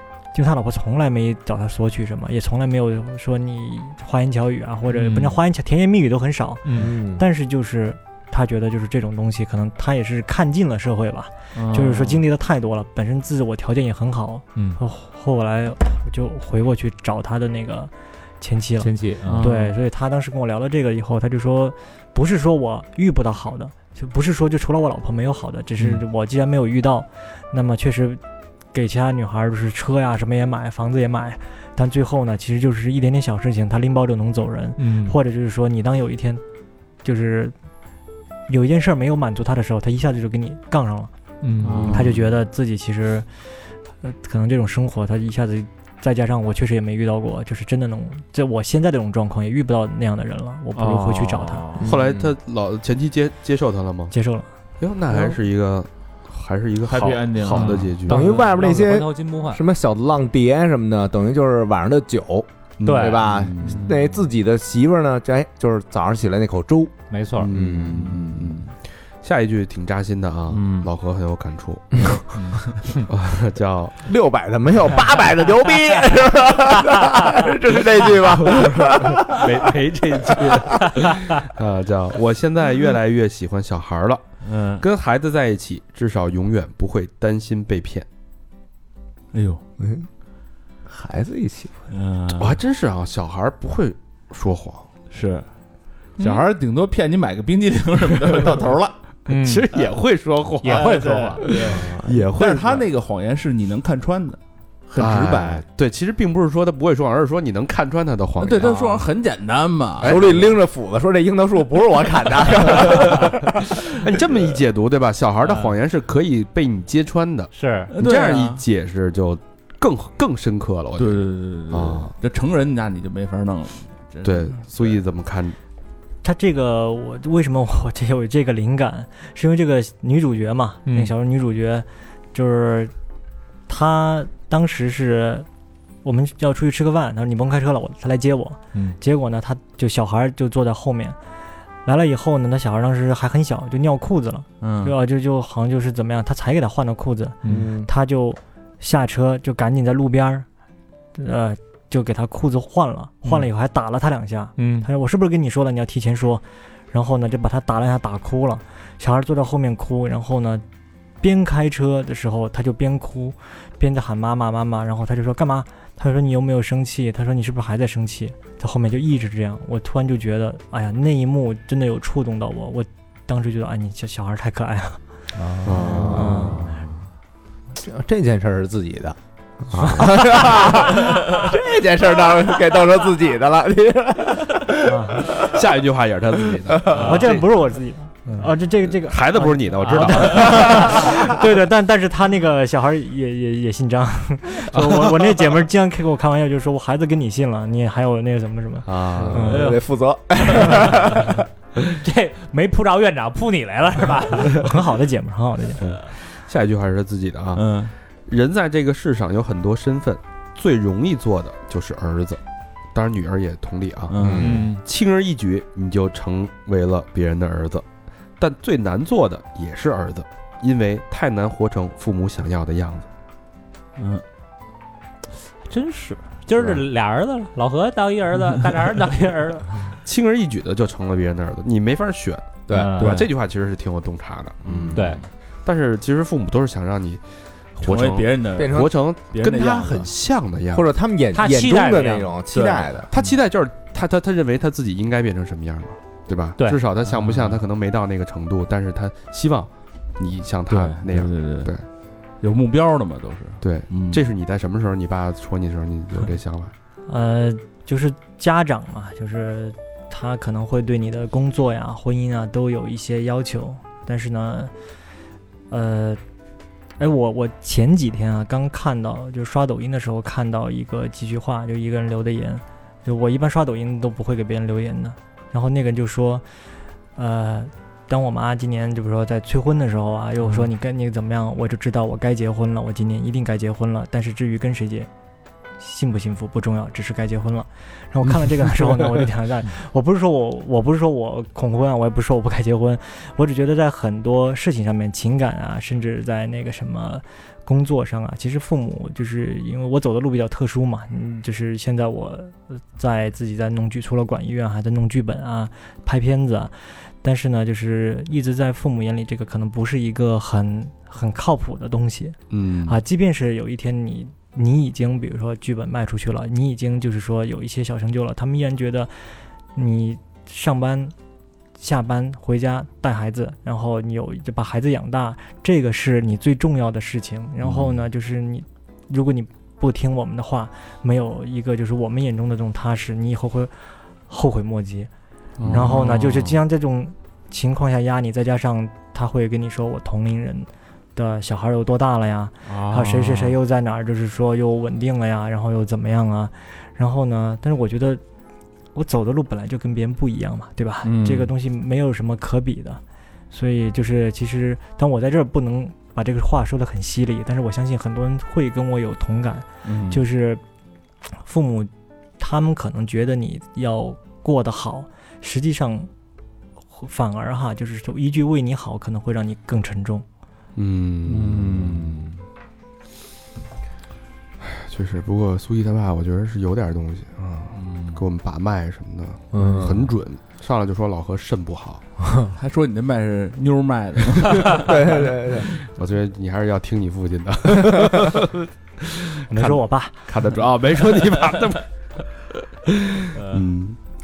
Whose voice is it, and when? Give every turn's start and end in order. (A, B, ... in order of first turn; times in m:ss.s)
0:00.3-0:28.2 A
0:04.9-0:05.4 B
0:06.6-0:06.9 C
0:06.7-0:07.2 D
0:11.5-0:12.2 B
0:18.8-0:19.5 C
0:19.2-0:19.8 B
0:28.7-0:36.4 A
0:34.8-0:35.2 C
0:37.0-0:37.5 A
0:38.5-0:41.1 A
0:41.4-0:42.0 C
0:41.6-0:42.3 B
0:41.8-0:43.3 A
0:44.0-0:51.7 A
0:50.7-0:52.0 B
0:51.8-0:52.3 D
0:51.8-0:54.1 E
0:54.1-0:54.5 A
0:54.8-0:58.3 E
0:56.9-0:58.0 B
0:58.0-0:59.6 C
0:58.1-1:06.9 D
1:02.8-1:03.8 E
1:02.8-1:03.2 C
1:03.5-1:04.2 B
1:07.1-1:07.5 C
1:07.4-1:08.7 E
1:07.5-1:08.2 D
1:07.9-1:08.6 B
1:09.2-1:12.2 E
1:10.5-1:10.9 B
1:12.4-1:12.8 B
1:13.1-1:14.0 E
1:14.0-1:19.7 D
1:18.2-1:28.1 E
1:20.2-1:20.8 D
1:24.4-1:24.8 B
1:29.3-1:29.6 B
1:29.8-1:30.1 D
1:30.8-1:31.9 D
1:31.9-1:32.6 B
1:32.4-1:34.9 E
1:35.1-1:35.5 B
1:36.2-1:36.4 C
1:36.2-1:38.9 B
1:39.3-1:39.9 C
1:39.3-1:42.9 E
1:40.6-1:41.6 C
1:40.6-1:45.6 B
1:41.4-1:42.3 D
1:45.0-1:48.8 E
1:48.4-1:50.4 B
1:48.4-1:49.1 D
1:50.0-1:50.5 E
1:50.0-1:53.6 D
1:52.8-2:02.1 E
1:55.4-1:55.8 C
1:57.5-1:57.9 C
1:57.9-1:58.6 B
2:01.0-2:05.0 B
2:04.2-2:05.6 E
2:06.2-2:12.9 A
2:10.8-2:11.1 C
2:13.7-2:15.5 A
2:16.0-2:21.2 A
2:21.8-2:30.4 A
2:24.6-2:25.0 B
2:27.4-2:27.9 D
2:31.2-2:40.6 A
2:34.6-2:34.9 C
2:41.2-2:55.0 A
2:55.4-2:56.1 C
2:55.6-2:56.3 E
2:55.7-2:56.6 D
2:56.0-2:57.1 B
2:56.1-2:56.6 A
2:57.8-2:59.2 D
2:59.7-3:05.6 D
3:04.8-3:05.3 A
3:05.4-3:07.4 E
3:06.6-3:07.1 D
3:06.9-3:07.3 C
3:07.0-3:19.7 A
3:08.8-3:11.2 E
3:09.8-3:11.0 C
3:14.7-3:15.4 E
3:18.8-3:19.7 E
3:19.2-3:21.4 D
3:19.5-3:19.8 C
3:20.5-3:24.7 C
3:24.4-3:25.8 A
3:25.8-3:32.4 E
3:27.5-3:27.9 B
3:32.9-3:37.8 E
3:34.1-3:34.8 B
3:34.2-3:34.7 D
3:34.4-3:34.8 C
3:38.4-3:43.1 E
3:44.0-3:44.2 B
3:45.7-3:49.9 C
3:46.6-3:46.8 E
3:50.0-3:57.2 E
3:52.7-3:53.1 D
3:52.7-3:53.2 C
3:53.0-3:53.3 B
3:54.7-3:54.9 D
3:54.7-3:55.2 B
3:54.9-3:55.2 C
3:57.8-4:00.9 E
3:57.8-4:00.1 B
3:58.6-3:58.9 D
4:00.7-4:03.1 D
4:01.3-4:02.3 C
4:02.5-4:03.4 B
4:03.1-4:11.8 E
4:07.0-4:07.6 B
4:10.7-4:11.7 B
4:12.4-4:14.2 B
4:13.6-4:16.7 E
4:17.1-4:24.7 A
4:25.7-4:26.2 A
4:27.0-4:36.4 A
4:37.2-4:45.1 A
4:45.8-5:21.1 A
5:12.5-5:13.0 E
5:21.8-5:35.1 A
5:27.6-5:28.0 B
5:35.6-5:36.6 B
5:35.7-5:48.2 A
5:42.6-5:43.6 B
5:48.9-6:00.6 A
5:51.0-5:51.5 B
5:59.8-6:00.2 B
6:01.4-6:06.1 A
6:06.9-6:10.2 A
6:10.8-6:12.1 E
6:11.2-6:12.4 B
6:14.6-6:22.0 E
6:17.7-6:18.2 B
6:19.5-6:20.1 D
6:22.2-6:22.5 D
6:22.5-6:25.2 B
6:24.7-6:25.7 D
6:25.8-6:31.9 E
6:29.5-6:30.3 A
6:32.8-6:34.0 E